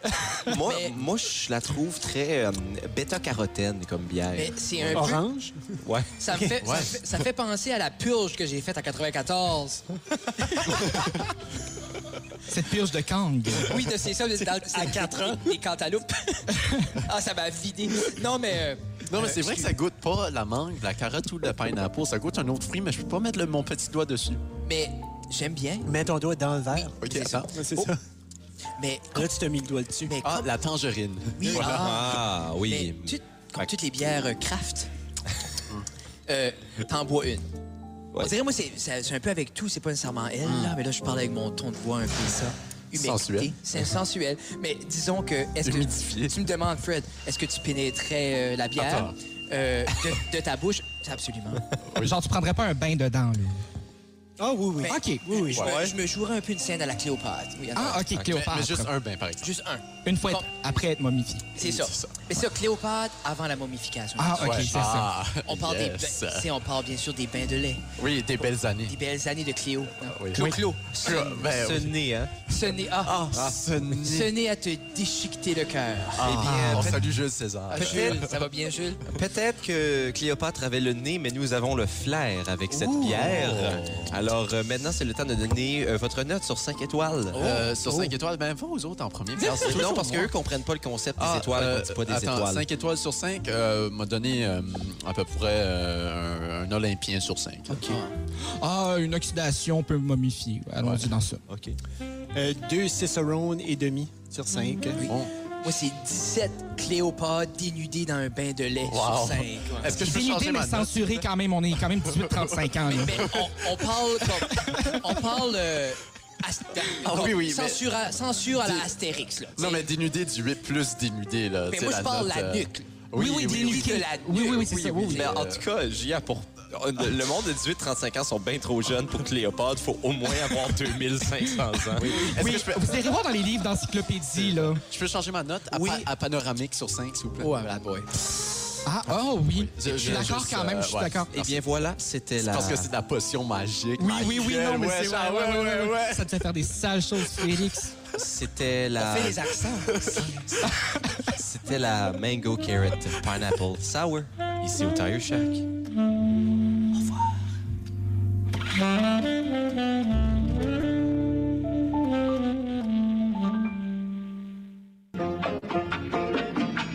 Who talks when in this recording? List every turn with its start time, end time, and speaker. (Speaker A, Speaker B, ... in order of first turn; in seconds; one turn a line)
Speaker A: 0.4-5.1
Speaker B: 0.5-1.0
Speaker B: 4.3-5.2
Speaker C: 4.9-5.8
Speaker A: 5.8-6.1
Speaker B: 6.2-11.0
Speaker C: 6.3-6.6
Speaker D: 6.6-7.0
Speaker E: 12.5-13.8
Speaker B: 13.6-19.7
Speaker C: 14.6-15.5
Speaker D: 19.1-24.4
Speaker B: 24.6-25.9
Speaker C: 25.9-27.0
Speaker B: 26.7-27.9
Speaker D: 27.0-27.9
Speaker C: 27.5-28.0
Speaker B: 28.8-29.3
Speaker C: 29.1-30.2
Speaker B: 30.1-30.5
Speaker D: 30.2-32.0
Speaker B: 31.4-34.9
Speaker A: 31.5-33.2
Speaker B: 36.3-37.5
Speaker B: 38.2-51.6
Speaker D: 40.4-40.8
Speaker D: 42.9-43.5
Speaker D: 45.6-46.4
Speaker D: 48.8-49.1
Speaker D: 51.9-52.2
Speaker E: 52.0-53.6
Speaker C: 54.4-55.6
Speaker B: 54.8-58.0
Speaker E: 54.9-55.2
Speaker D: 55.5-55.9
Speaker A: 55.6-55.9
Speaker E: 57.8-58.9
Speaker D: 58.1-59.5
Speaker B: 59.4-60.5
Speaker E: 60.0-61.5
Speaker B: 61.5-64.8
Speaker D: 61.6-62.2
Speaker E: 64.2-65.1
Speaker D: 64.4-66.5
Speaker B: 65.5-67.8
Speaker D: 68.0-69.0
Speaker B: 68.9-71.5
Speaker D: 70.1-72.0
Speaker A: 71.1-72.3
Speaker B: 72.5-73.4
Speaker D: 73.0-74.3
Speaker B: 74.0-76.7
Speaker D: 76.2-78.3
Speaker A: 76.2-77.0
Speaker E: 76.4-77.1
Speaker B: 77.7-79.1
Speaker A: 77.7-78.3
Speaker A: 79.1-87.4
Speaker B: 82.7-83.4
Speaker D: 83.0-84.2
Speaker B: 87.3-88.1
Speaker D: 87.4-90.3
Speaker B: 89.4-89.8
Speaker A: 89.6-92.7
Speaker D: 91.2-98.0
Speaker B: 97.7-98.1
Speaker E: 98.6-101.4
Speaker D: 100.8-101.1
Speaker A: 101.5-101.8
Speaker C: 102.3-105.0
Speaker B: 104.9-110.0
Speaker D: 105.0-105.3
Speaker D: 108.9-111.2
Speaker E: 110.0-113.4
Speaker D: 112.0-113.5
Speaker B: 112.9-119.9
Speaker E: 114.5-115.0
Speaker D: 117.0-117.9
Speaker D: 118.6-118.9
Speaker D: 119.6-124.0
Speaker B: 121.7-125.4
Speaker E: 123.2-125.4
Speaker D: 125.1-125.7
Speaker A: 125.1-132.3
Speaker D: 131.9-133.1
Speaker E: 132.2-134.8
Speaker D: 134.4-137.7
Speaker B: 135.7-136.1
Speaker B: 137.4-138.1
Speaker E: 138.8-141.3
Speaker D: 139.4-141.6
Speaker A: 141.3-142.9
Speaker D: 142.4-146.3
Speaker E: 144.0-147.9
Speaker A: 148.2-149.6
Speaker B: 149.0-150.2
Speaker D: 149.7-150.4
Speaker A: 150.2-150.7
Speaker E: 150.7-151.2
Speaker A: 151.2-155.7